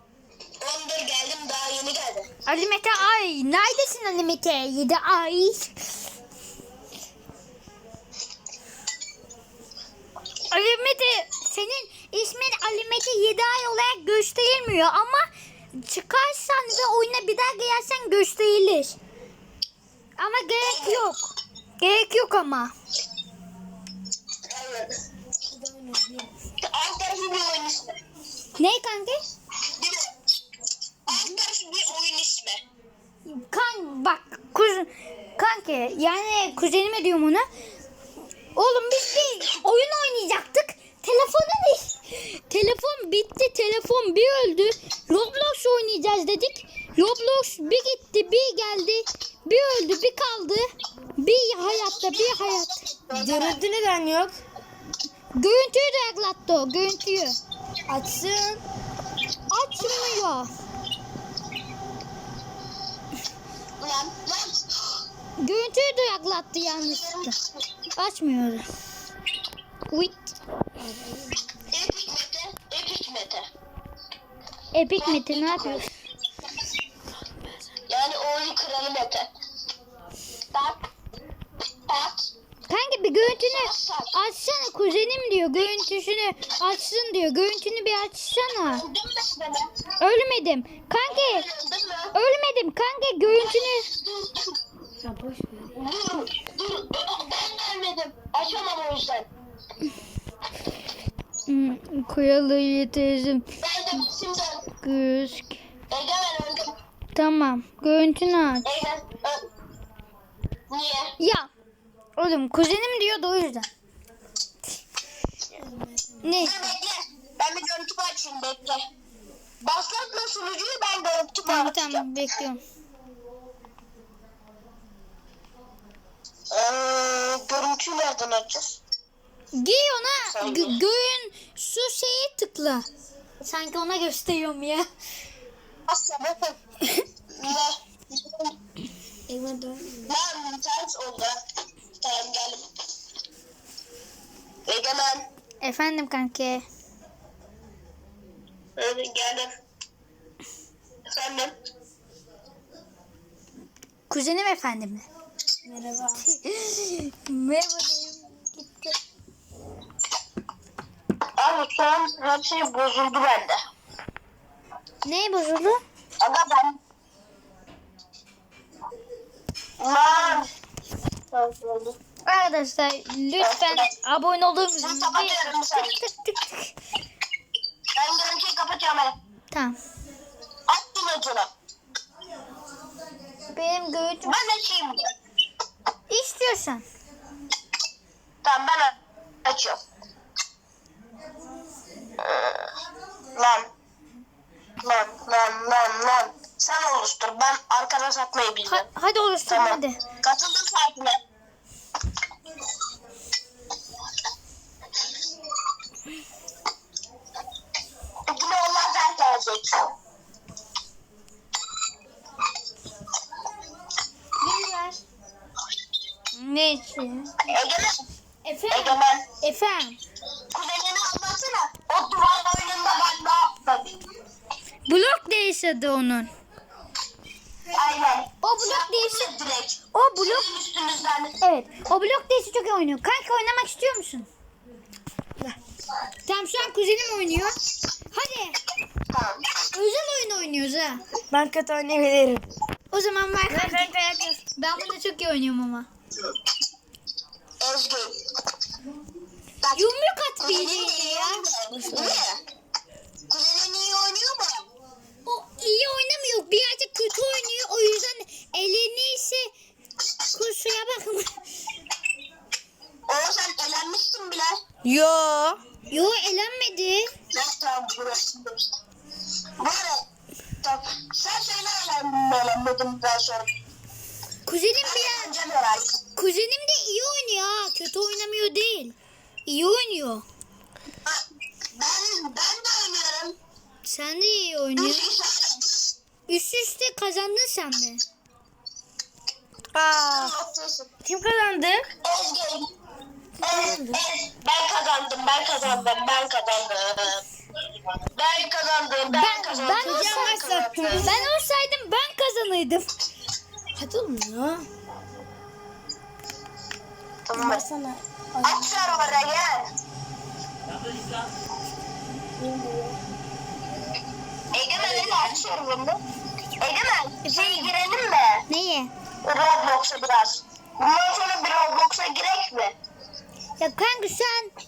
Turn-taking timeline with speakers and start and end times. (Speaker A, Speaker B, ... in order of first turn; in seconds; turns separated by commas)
Speaker A: 0.6-2.3, Speaker B: 2.5-5.7, Speaker B: 10.5-19.0, Speaker B: 20.2-22.7, Speaker A: 20.6-21.1, Speaker A: 24.4-25.0, Speaker C: 25.5-26.3, Speaker A: 26.6-28.0, Speaker B: 28.6-29.2, Speaker A: 29.8-30.1, Speaker A: 31.1-32.6, Speaker B: 31.1-31.4, Speaker B: 33.3-37.5, Speaker B: 38.5-50.7, Speaker B: 51.2-52.9, Speaker A: 51.6-53.6, Speaker C: 53.1-54.4, Speaker B: 55.4-57.4, Speaker C: 57.9-58.6, Speaker B: 59.5-60.5, Speaker A: 59.8-60.1, Speaker A: 63.8-64.7, Speaker B: 65.4-67.3, Speaker A: 66.8-67.7, Speaker B: 68.0-68.7, Speaker B: 69.9-70.3, Speaker C: 70.8-71.5, Speaker A: 71.7-73.5, Speaker B: 74.7-75.9, Speaker A: 75.0-75.8, Speaker A: 77.9-79.3, Speaker A: 80.5-80.8, Speaker A: 81.9-82.3, Speaker B: 82.7-88.8, Speaker A: 83.2-84.2, Speaker A: 88.7-89.7, Speaker B: 90.0-91.5, Speaker A: 91.0-92.2, Speaker B: 92.1-93.9, Speaker A: 93.3-94.6, Speaker C: 95.0-95.7, Speaker A: 95.7-99.3, Speaker B: 101.5-103.5, Speaker A: 103.6-104.7, Speaker B: 104.8-105.6, Speaker A: 105.9-106.7, Speaker B: 107.2-108.7, Speaker A: 108.6-109.5, Speaker A: 110.7-111.2, Speaker B: 111.2-111.5, Speaker B: 112.2-113.7, Speaker B: 116.2-116.8, Speaker A: 116.4-118.8, Speaker A: 119.6-122.1, Speaker B: 121.5-122.6, Speaker A: 126.5-128.8, Speaker B: 129.5-132.8, Speaker A: 130.2-130.8, Speaker B: 133.4-134.9, Speaker A: 135.9-136.6, Speaker A: 137.4-138.5, Speaker C: 139.3-140.1, Speaker A: 140.1-141.4, Speaker A: 142.0-142.7, Speaker A: 144.7-145.3, Speaker B: 145.6-146.7, Speaker A: 148.8-149.5, Speaker A: 151.1-151.6, Speaker B: 154.1-155.1, Speaker C: 155.7-156.2, Speaker B: 156.2-159.0, Speaker A: 161.4-163.6, Speaker B: 165.0-165.8, Speaker A: 166.2-166.8, Speaker A: 169.8-170.5, Speaker A: 171.3-172.0, Speaker B: 172.3-176.8, Speaker A: 173.4-173.9, Speaker A: 174.8-176.0, Speaker A: 178.0-179.2, Speaker B: 179.5-179.8, Speaker A: 180.7-181.5, Speaker B: 183.5-184.4, Speaker A: 184.2-185.0, Speaker B: 186.1-186.9, Speaker A: 188.4-189.8, Speaker A: 192.2-192.7, Speaker A: 193.3-193.7, Speaker A: 194.8-198.9, Speaker B: 198.7-200.0, Speaker A: 199.5-201.2, Speaker A: 208.3-209.9, Speaker B: 214.4-215.0, Speaker B: 216.4-217.4, Speaker A: 217.4-218.0, Speaker B: 218.4-220.0, Speaker A: 218.7-219.3, Speaker A: 220.5-223.9, Speaker B: 224.9-226.3, Speaker A: 227.7-231.3, Speaker B: 228.4-229.3, Speaker B: 229.9-230.5, Speaker B: 231.4-234.3, Speaker B: 236.3-237.6, Speaker B: 238.1-238.6, Speaker A: 239.1-239.4, Speaker B: 239.7-241.0, Speaker C: 241.3-242.4, Speaker B: 242.9-243.9, Speaker C: 243.5-244.4, Speaker B: 244.6-245.9, Speaker A: 247.6-248.2, Speaker A: 249.6-252.4, Speaker B: 249.8-251.4, Speaker C: 251.7-252.3, Speaker A: 253.3-254.7, Speaker B: 255.2-259.5, Speaker B: 260.3-261.4, Speaker A: 263.1-264.6, Speaker C: 264.9-265.6, Speaker B: 265.9-267.1, Speaker A: 267.3-268.6, Speaker A: 269.6-270.1, Speaker A: 270.6-273.5, Speaker B: 274.5-275.4, Speaker A: 274.8-276.0, Speaker B: 276.2-280.2, Speaker A: 281.8-283.4, Speaker B: 283.9-285.1, Speaker A: 284.8-285.9, Speaker B: 286.3-288.0, Speaker C: 289.8-290.3, Speaker A: 290.1-290.9, Speaker C: 291.1-291.9, Speaker A: 292.0-292.7, Speaker C: 293.4-294.0, Speaker A: 293.4-297.2, Speaker A: 298.1-301.2, Speaker B: 299.1-300.5, Speaker C: 299.8-301.3, Speaker B: 301.0-302.9, Speaker C: 303.8-304.7, Speaker A: 307.3-307.7, Speaker C: 307.3-309.2, Speaker A: 308.4-309.7, Speaker C: 312.4-313.0, Speaker A: 314.5-316.0, Speaker A: 316.6-318.5, Speaker B: 317.2-317.7, Speaker B: 318.5-318.9, Speaker A: 319.2-322.8, Speaker B: 323.6-324.5